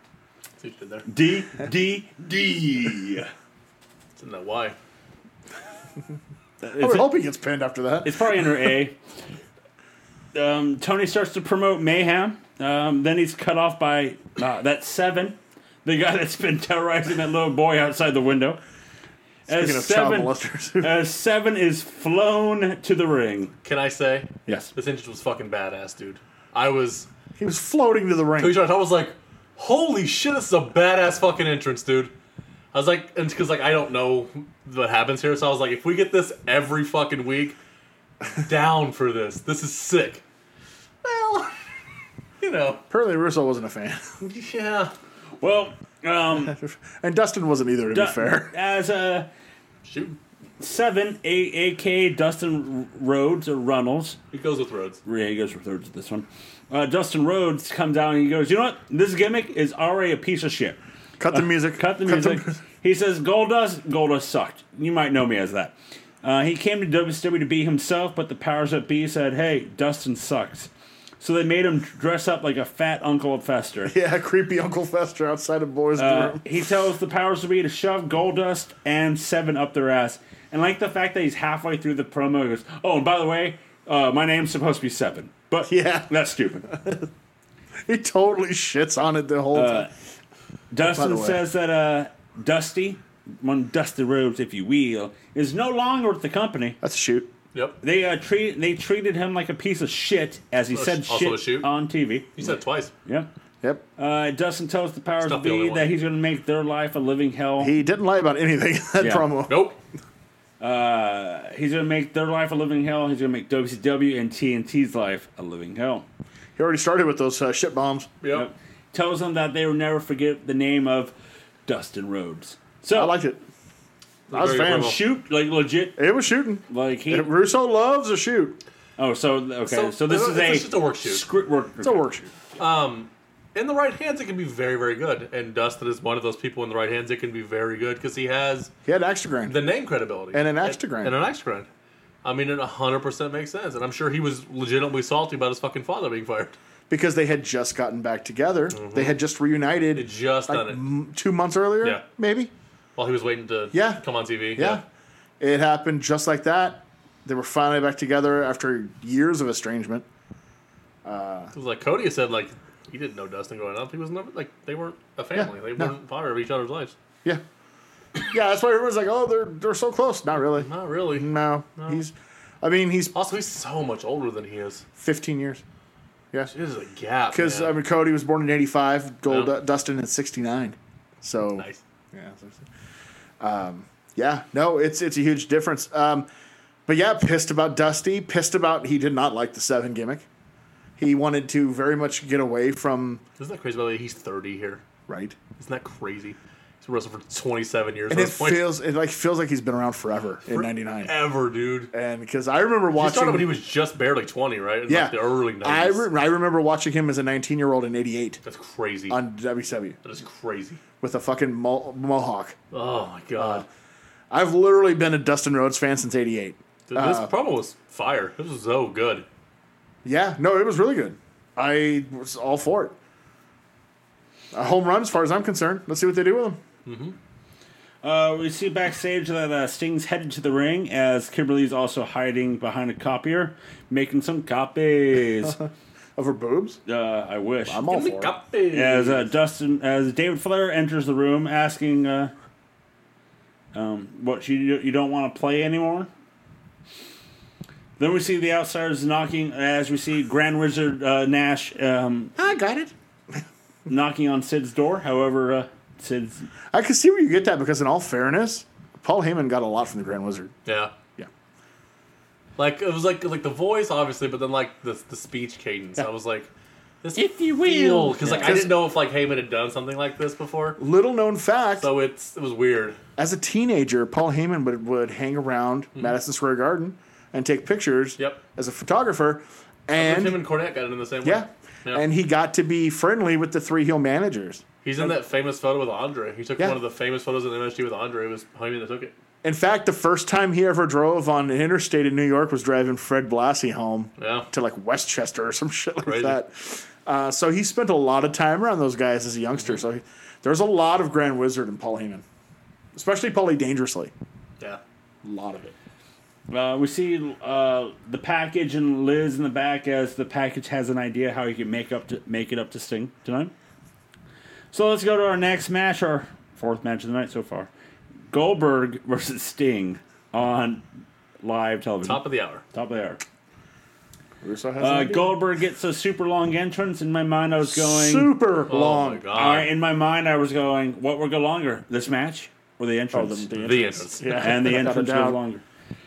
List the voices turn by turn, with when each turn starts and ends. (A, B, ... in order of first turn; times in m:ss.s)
0:00.6-0:01.1 A
0:01.1-0:03.3 B
0:04.2-0:04.8 A
0:06.6-0:07.1 B
0:06.8-0:08.2 C
0:08.0-0:09.0 B
0:10.3-0:18.6 B
0:19.5-0:20.9 C
0:19.5-0:23.5 B
0:23.6-0:27.1 A
0:27.4-0:28.6 C
0:28.4-0:32.1 A
0:32.7-0:37.6 A
0:38.3-0:40.2 A
0:41.0-0:41.5 A
0:42.4-0:42.8 A
0:42.9-0:44.2 C
0:44.2-0:44.9 A
0:45.4-0:46.6 B
0:46.5-0:48.5 C
0:47.9-0:49.3 B
0:49.8-0:50.2 A
0:50.6-0:54.2 B
0:54.3-0:55.0 A
0:55.0-1:00.8 B
1:01.2-1:02.6 C
1:01.3-1:13.9 B
1:13.9-1:16.5 C
1:16.0-1:26.7 B
1:25.6-1:26.1 C
1:26.6-1:27.1 C
1:27.9-1:29.9 C
1:29.5-1:29.9 B
1:30.7-1:36.8 B
1:30.8-1:31.4 C
1:36.8-1:37.3 C
1:37.8-1:42.3 B
1:40.7-1:41.7 A
1:42.4-1:42.9 A
1:44.0-1:47.7 B
1:45.2-1:45.9 A
1:47.6-1:49.6 C
1:49.0-1:49.3 B
1:49.5-1:49.8 A
1:50.6-1:56.1 B
1:56.6-1:58.1 C
1:58.2-1:58.5 A
1:58.3-2:01.1 B
2:01.7-2:03.2 B
2:02.9-2:03.4 C
2:04.3-2:05.0 C
2:04.3-2:05.0 A
2:04.4-2:06.0 B
2:06.0-2:08.6 C
2:06.7-2:07.3 B
2:09.0-2:12.0 B
2:09.7-2:11.2 A
2:11.8-2:12.3 C
2:12.6-2:18.7 A
2:18.9-2:19.6 C
2:19.5-2:21.7 A
2:20.3-2:21.2 C
2:22.2-2:26.6 A
2:26.9-2:32.5 C
2:28.7-2:29.2 A
2:30.0-2:30.8 A
2:33.0-2:34.8 A
2:33.7-2:34.0 C
2:34.6-2:34.8 C
2:35.4-2:40.1 C
2:41.0-2:41.5 C
2:41.5-2:47.0 A
2:45.4-2:45.9 C
2:48.2-2:53.1 C
2:50.5-2:52.0 A
2:53.1-2:54.8 A
2:55.0-2:55.6 C
2:56.5-2:57.8 A
2:57.3-3:02.7 C
3:01.6-3:01.8 A
3:03.4-3:06.3 C
3:06.9-3:10.3 C
3:11.0-3:13.2 C
3:13.4-3:14.8 A
3:15.1-3:15.4 C
3:15.6-3:18.7 A
3:18.1-3:21.1 C
3:20.5-3:21.9 A
3:21.9-3:23.5 C
3:23.0-3:26.1 A
3:24.9-3:28.4 C
3:28.4-3:29.2 A
3:29.1-3:30.0 C
3:30.0-3:30.8 A
3:31.0-3:32.6 C
3:32.7-3:33.6 A
3:33.4-3:33.7 C
3:34.3-3:37.3 C
3:36.9-3:39.3 A
3:40.0-3:43.0 C
3:44.5-3:46.6 C
3:46.9-3:47.2 A
3:48.0-3:55.6 B
3:56.2-3:56.8 C
3:56.9-3:57.9 B
3:57.7-3:58.4 C
3:57.9-3:59.3 A
3:58.7-4:02.3 B
4:03.7-4:06.1 B
4:08.0-4:12.4 B
4:12.4-4:13.4 C
4:13.9-4:16.5 B
4:16.7-4:20.6 C
4:20.7-4:20.9 A
4:22.6-4:26.5 A
4:27.0-4:30.8 A
4:27.2-4:28.6 B
4:28.2-4:28.8 C
4:30.8-4:31.9 C
4:31.8-4:33.0 A
4:33.2-4:40.4 C
4:40.0-4:42.0 A
4:41.2-4:45.1 C
4:44.8-4:49.1 A
4:49.4-5:02.2 C
4:54.2-4:54.5 A
4:56.0-4:56.4 A
5:02.9-5:04.1 C
5:05.2-5:05.7 C
5:06.5-5:13.5 B
5:14.7-5:17.7 B
5:18.3-5:20.8 B
5:21.4-5:23.2 B
5:22.0-5:22.6 A
5:24.4-5:25.3 C
5:24.8-5:28.3 B
5:27.7-5:29.2 C
5:28.7-5:29.7 A
5:29.3-5:33.5 B
5:33.1-5:35.4 C
5:33.6-5:34.5 A
5:34.3-5:35.6 B